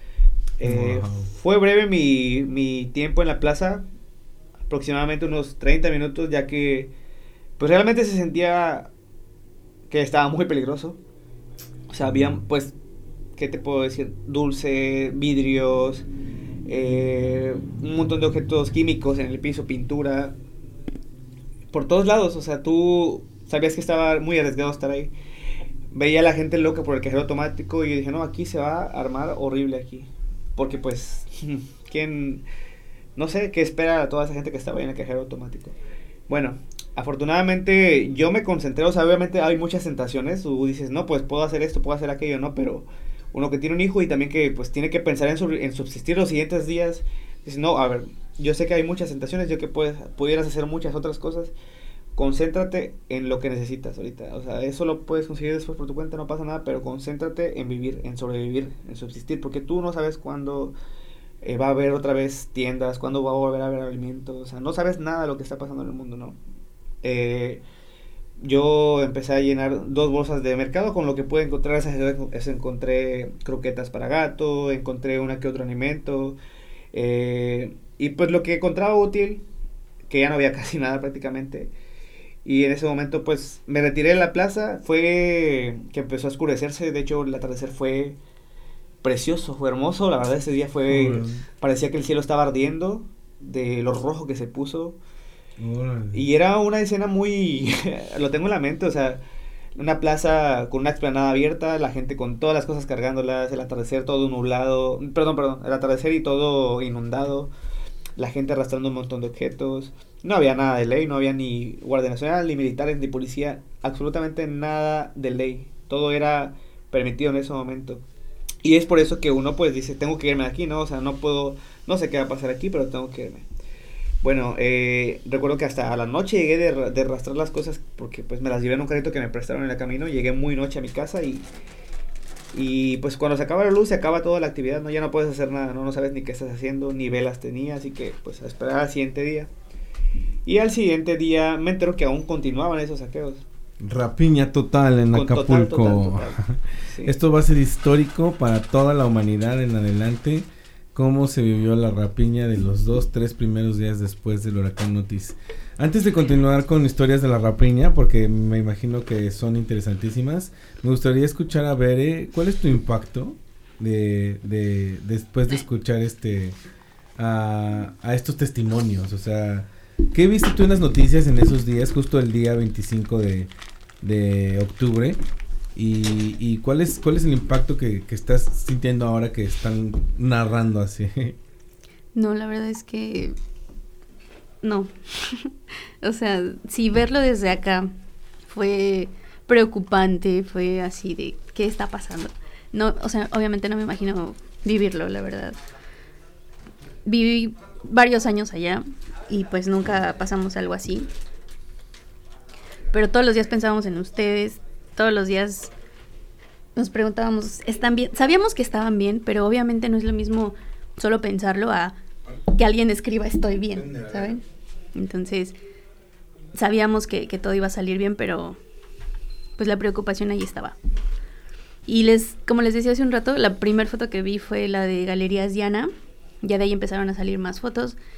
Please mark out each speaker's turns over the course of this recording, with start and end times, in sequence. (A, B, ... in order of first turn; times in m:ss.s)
0:00.6-0:03.8 A
0:00.6-0:01.3 B
0:04.7-0:06.9 A
0:07.6-0:08.9 A
0:09.9-0:11.0 A
0:11.9-0:12.7 A
0:13.4-0:16.1 A
0:16.7-0:20.4 A
0:21.7-0:25.1 A
0:25.9-0:32.4 A
0:33.2-0:35.8 A
0:36.3-0:51.5 A
0:52.1-1:00.7 A
1:01.4-1:06.4 A
1:07.0-1:07.6 A
1:08.4-1:16.4 A
1:16.9-1:19.4 A
1:20.1-1:21.7 A
1:22.4-1:28.2 A
1:29.0-1:35.0 A
1:30.9-1:31.4 B
1:35.6-1:36.2 B
1:36.1-1:39.2 A
1:39.8-1:47.5 A
1:48.2-1:58.0 A
1:58.6-2:03.5 A
2:04.2-2:11.4 A
2:12.5-2:19.5 A
2:20.4-2:23.4 A
2:23.8-2:46.6 B
2:25.1-2:27.1 A
2:47.2-2:55.2 B
2:55.7-3:01.4 B
3:02.1-3:03.4 C
3:04.6-3:05.5 C
3:06.0-3:07.9 C
3:08.5-3:15.6 C
3:17.0-3:21.1 C
3:22.9-3:25.7 C
3:26.8-3:32.0 C
3:32.5-3:34.4 C
3:33.7-3:34.4 B
3:35.0-3:35.6 C
3:36.6-3:38.6 C
3:39.6-3:40.8 C
3:41.9-3:48.0 C